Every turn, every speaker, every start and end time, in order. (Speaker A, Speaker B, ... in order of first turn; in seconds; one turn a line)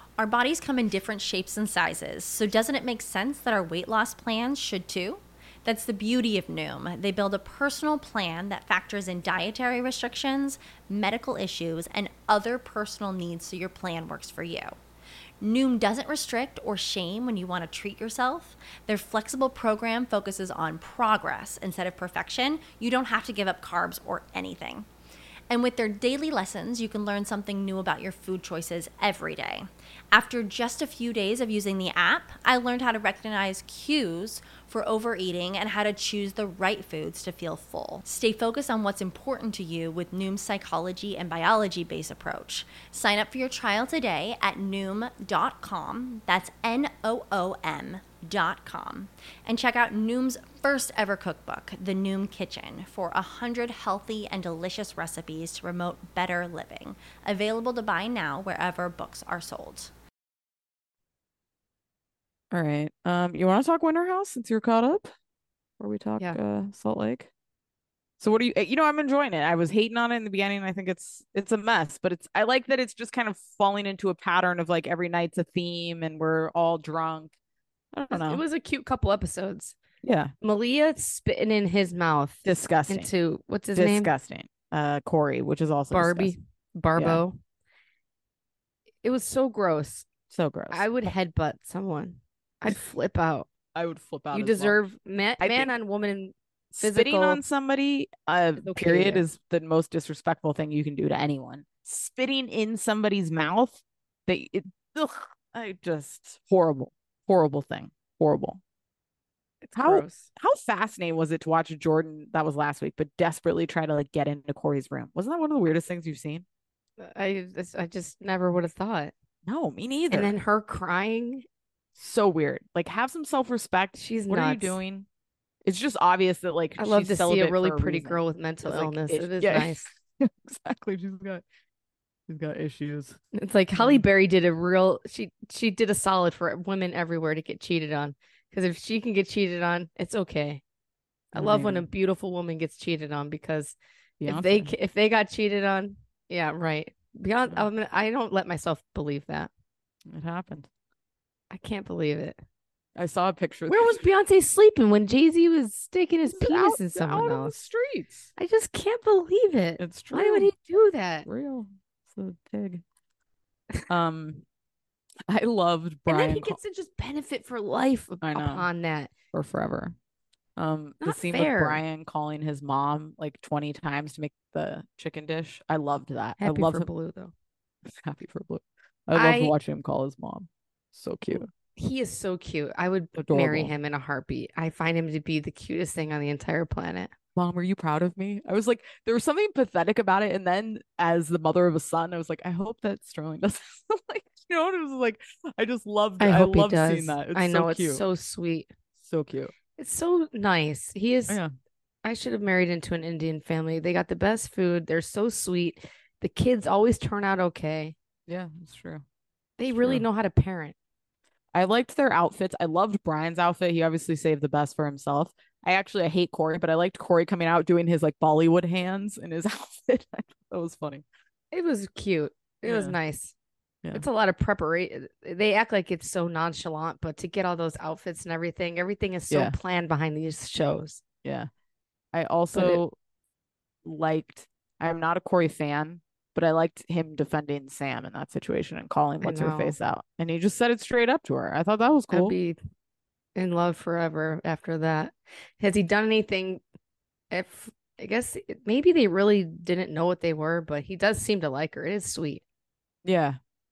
Speaker A: 0.2-14.8
Speaker A: 15.4-24.9
Speaker A: 25.5-59.9
Speaker B: 62.5-65.1
Speaker B: 65.8-67.3
Speaker B: 68.2-77.3
Speaker B: 77.9-78.4
Speaker C: 78.1-79.7
Speaker B: 80.0-80.3
Speaker C: 80.4-84.1
Speaker B: 82.4-83.1
Speaker B: 83.7-86.3
Speaker C: 85.9-87.4
Speaker B: 87.0-87.2
Speaker C: 89.0-90.1
Speaker B: 90.3-90.8
Speaker C: 90.7-93.5
Speaker B: 93.7-94.8
Speaker C: 94.3-97.4
Speaker B: 95.4-95.7
Speaker B: 96.7-108.6
Speaker C: 98.6-99.2
Speaker C: 109.6-110.3
Speaker B: 109.7-116.4
Speaker C: 117.0-119.1
Speaker B: 119.4-120.3
Speaker C: 120.1-121.4
Speaker B: 121.9-125.1
Speaker C: 123.9-124.8
Speaker B: 125.6-131.4
Speaker C: 126.8-129.9
Speaker B: 132.3-133.2
Speaker C: 133.3-140.6
Speaker B: 133.8-134.1
Speaker C: 141.3-149.5
Speaker B: 141.3-141.9
Speaker B: 144.2-144.7
Speaker B: 150.1-150.7
Speaker C: 151.5-152.4
Speaker B: 152.9-154.0
Speaker C: 153.7-157.6
Speaker B: 156.3-158.3
Speaker C: 158.4-161.3
Speaker B: 159.8-160.5
Speaker B: 161.2-162.8
Speaker B: 163.9-164.4
Speaker B: 165.3-166.6
Speaker C: 166.1-169.1
Speaker B: 168.2-168.7
Speaker B: 169.3-169.9
Speaker B: 170.6-176.9
Speaker C: 171.0-171.8
Speaker C: 176.4-177.3
Speaker B: 177.9-181.5
Speaker C: 179.1-179.6
Speaker C: 181.3-187.1
Speaker B: 183.1-183.7
Speaker B: 187.4-198.0
Speaker C: 196.2-198.7
Speaker B: 199.0-199.5
Speaker C: 199.8-201.4
Speaker C: 202.0-207.9
Speaker B: 208.3-209.1
Speaker C: 209.6-210.7
Speaker B: 209.7-210.1
Speaker B: 211.5-221.1
Speaker C: 221.5-223.3
Speaker B: 222.6-222.9
Speaker C: 223.9-231.0
Speaker B: 229.3-229.6
Speaker B: 231.2-231.5
Speaker B: 232.1-232.9
Speaker C: 232.5-232.8
Speaker B: 233.8-242.4
Speaker C: 239.2-239.8
Speaker C: 242.1-242.6
Speaker C: 243.4-246.6
Speaker C: 247.3-252.4
Speaker B: 253.0-253.4